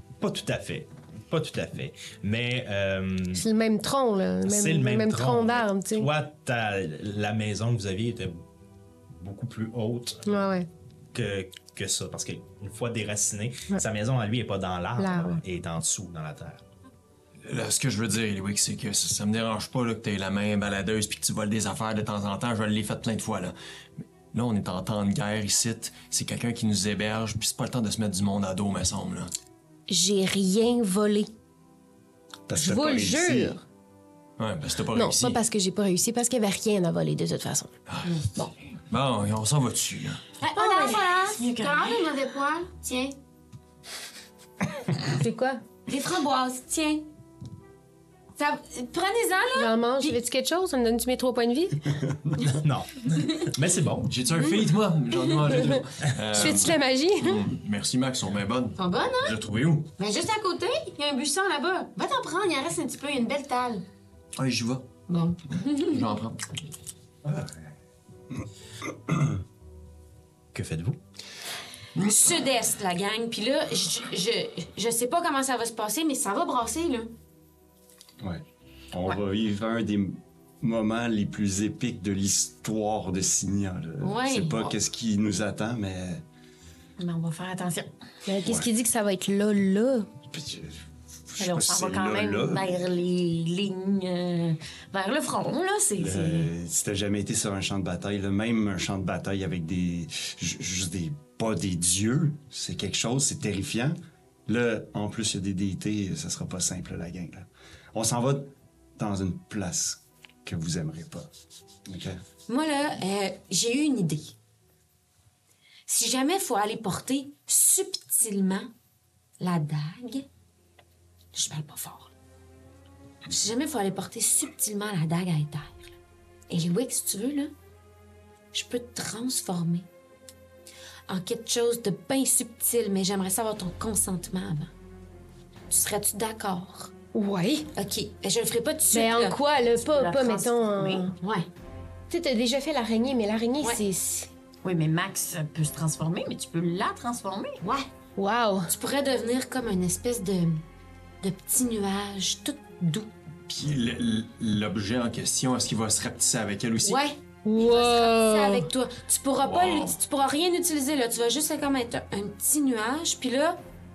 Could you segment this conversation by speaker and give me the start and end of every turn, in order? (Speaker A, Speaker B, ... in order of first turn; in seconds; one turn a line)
Speaker A: 0.2-3.5
Speaker B: 3.3-6.1
Speaker A: 4.5-8.4
Speaker A: 9.1-10.2
Speaker B: 10.2-10.7
Speaker A: 11.1-16.6
Speaker B: 15.0-15.4
Speaker C: 17.4-23.6
Speaker C: 24.3-29.3
Speaker B: 29.9-31.3
Speaker D: 32.5-33.5
Speaker B: 32.6-33.6
Speaker C: 34.4-35.4
Speaker B: 34.9-37.8
Speaker C: 37.9-38.2
Speaker C: 38.9-40.2
Speaker E: 40.4-43.1
Speaker F: 40.6-42.1
Speaker B: 45.2-45.6
Speaker E: 45.9-47.1
Speaker E: 48.4-50.1
Speaker B: 49.5-51.9
Speaker A: 52.4-54.1
Speaker C: 54.0-59.9
Speaker B: 55.4-57.4
Speaker E: 58.8-59.4
Speaker E: 60.0-63.8
Speaker C: 64.3-64.9
Speaker E: 65.1-66.0
Speaker C: 65.5-66.5
Speaker A: 70.5-71.0
Speaker E: 72.0-77.1
Speaker D: 78.2-86.2
Speaker E: 84.0-84.8
Speaker F: 87.0-87.9
Speaker B: 88.3-90.1
Speaker D: 90.3-92.9
Speaker F: 91.4-96.5
Speaker D: 96.0-111.3
Speaker D: 111.8-112.2
Speaker E: 112.5-114.3
Speaker E: 115.9-118.7
Speaker E: 119.4-120.2
Speaker E: 121.3-122.1
Speaker E: 123.3-125.9
Speaker E: 126.5-127.5
Speaker E: 128.5-129.9
Speaker E: 131.1-134.7
Speaker E: 135.7-136.9
Speaker B: 137.1-137.7
Speaker E: 137.8-139.4
Speaker B: 138.9-141.1
Speaker F: 139.8-141.1
Speaker E: 141.2-141.5
Speaker B: 142.1-144.3
Speaker F: 144.6-147.6
Speaker E: 147.6-147.9
Speaker B: 148.2-148.7
Speaker E: 148.7-150.6
Speaker E: 151.2-153.1
Speaker C: 153.5-157.0
Speaker E: 156.8-163.6
Speaker B: 157.4-158.7
Speaker C: 159.4-160.0